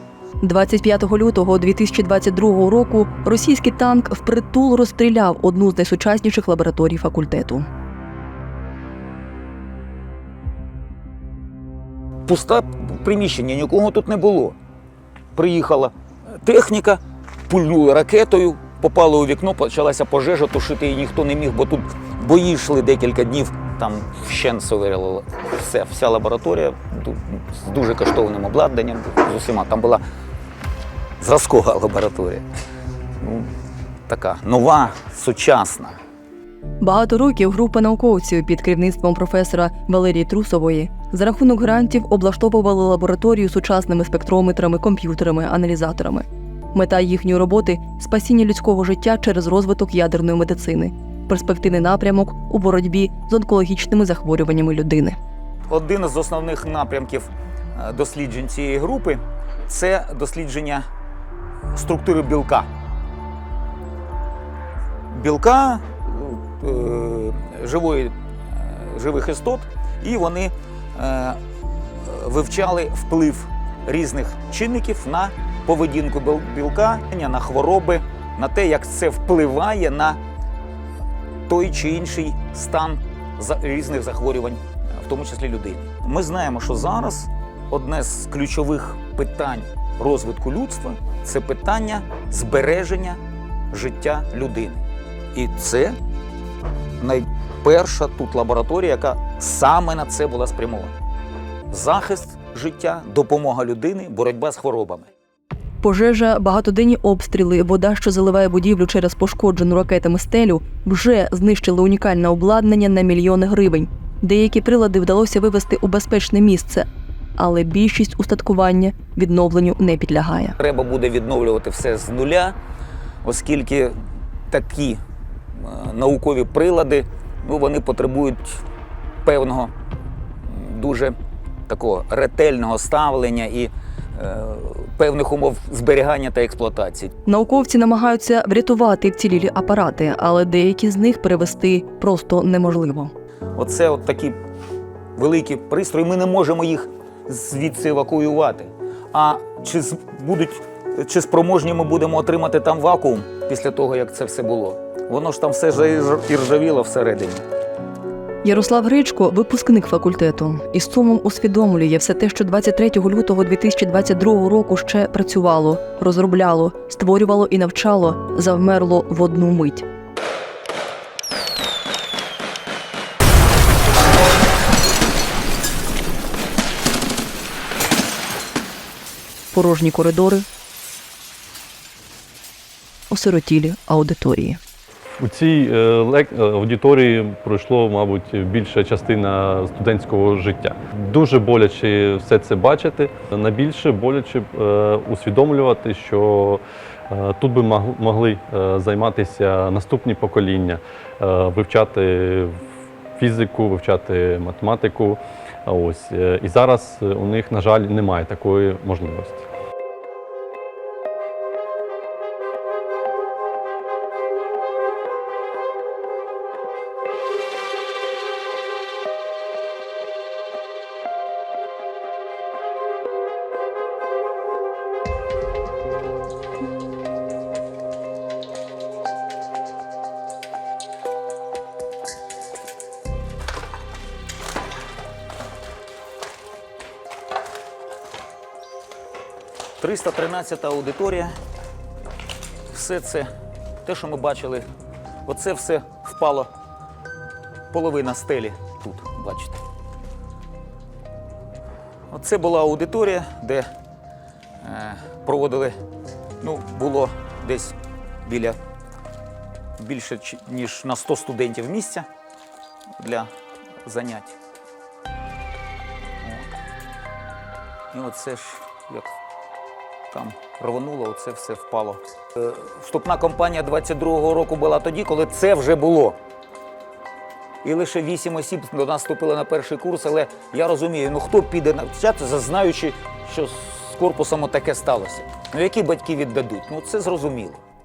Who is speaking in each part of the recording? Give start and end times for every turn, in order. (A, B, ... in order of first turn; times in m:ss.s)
0:00.4-0:07.6 A
0:12.3-0:14.6 B
0:15.4-0:30.0 B
0:31.2-0:32.5 B
0:33.2-0:33.5 B
0:34.1-0:36.0 B
0:36.8-0:55.2 A
0:55.7-1:00.9 B
1:01.7-1:02.7 B
1:05.1-1:20.2 B
1:21.5-1:33.2 B
1:33.7-1:36.0 B
1:37.0-1:41.0 B
1:41.7-1:45.1 B
1:45.8-2:00.6 A
2:00.6-2:02.6 B
2:03.2-2:04.0 B
2:04.5-2:05.0 B
2:05.5-2:08.6 B
2:09.2-2:09.7 B
2:10.4-2:11.2 B
2:11.7-2:17.1 B
2:17.3-2:23.1 A
2:23.6-2:24.4 B
2:25.2-2:37.4 B
2:38.4-2:49.8 A
2:59.5-3:00.5 A
3:03.1-3:04.6 A
3:05.2-3:22.6 C
3:23.2-3:29.4 C
3:59.8-4:01.3 B
4:02.7-4:03.3 B
4:03.8-4:04.7 B
4:05.3-4:06.5 B
4:07.7-4:09.6 B
4:12.1-4:13.7 B
4:14.6-4:15.8 B
4:16.4-4:18.6 B
4:19.8-4:22.1 B
4:23.0-4:23.3 B
4:23.8-4:24.4 B
4:27.9-4:29.2 B
4:30.1-4:36.2 B
4:37.6-4:47.6 B